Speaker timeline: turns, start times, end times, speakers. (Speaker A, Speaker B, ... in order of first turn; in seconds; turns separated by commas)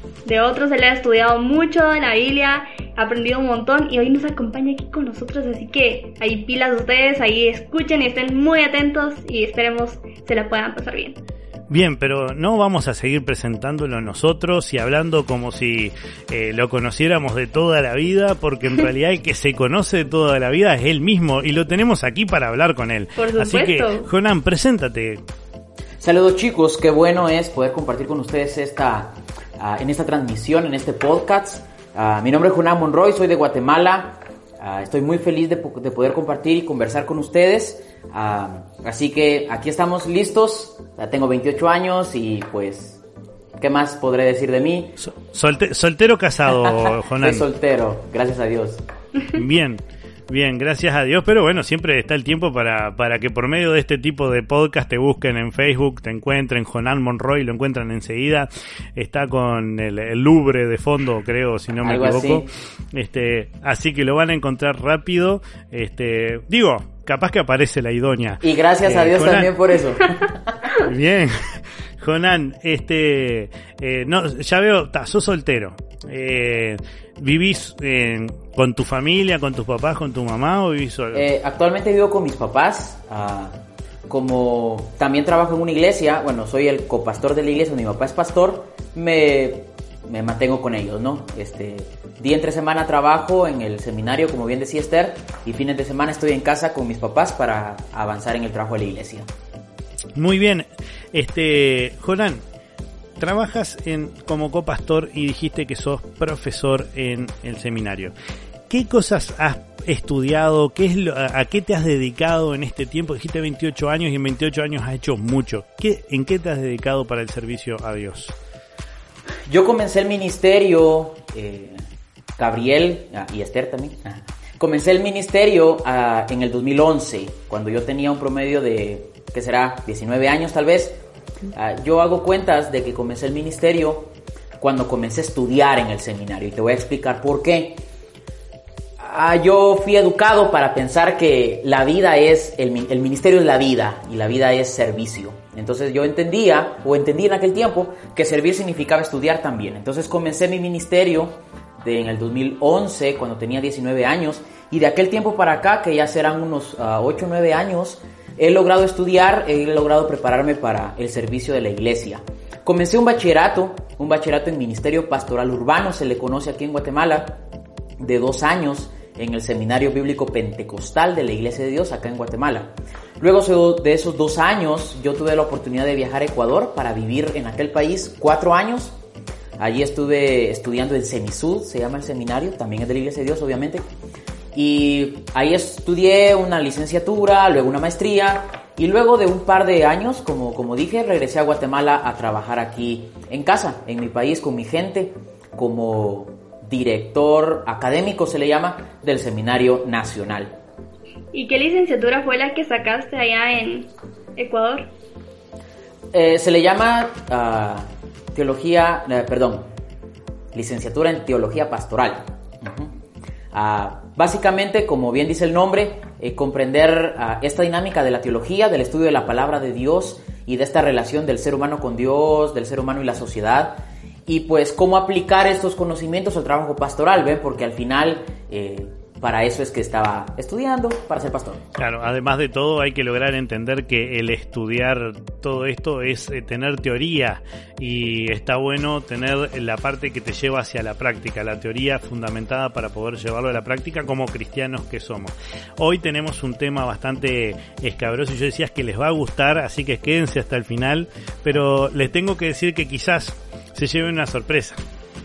Speaker A: 0.2-11.2, Speaker B: 11.7-25.2, Speaker A: 23.1-24.1, Speaker C: 26.0-43.0, Speaker C: 43.6-45.0, Speaker B: 45.0-47.5, Speaker C: 46.5-48.8, Speaker B: 49.3-69.5, Speaker C: 61.8-62.5, Speaker C: 68.4-70.6, Speaker B: 70.8-81.2, Speaker C: 81.1-83.5, Speaker C: 84.1-99.3, Speaker B: 100.2-102.4, Speaker B: 103.2-108.1, Speaker B: 108.7-118.3, Speaker C: 119.5-121.8, Speaker C: 122.4-131.0, Speaker C: 131.5-137.8, Speaker C: 139.0-167.4, Speaker C: 168.0-179.0, Speaker C: 179.6-183.8, Speaker C: 184.5-200.5, Speaker A: 201.3-204.9, Speaker C: 206.1-209.7, Speaker C: 210.5-212.9, Speaker C: 213.5-231.6, Speaker B: 231.8-254.8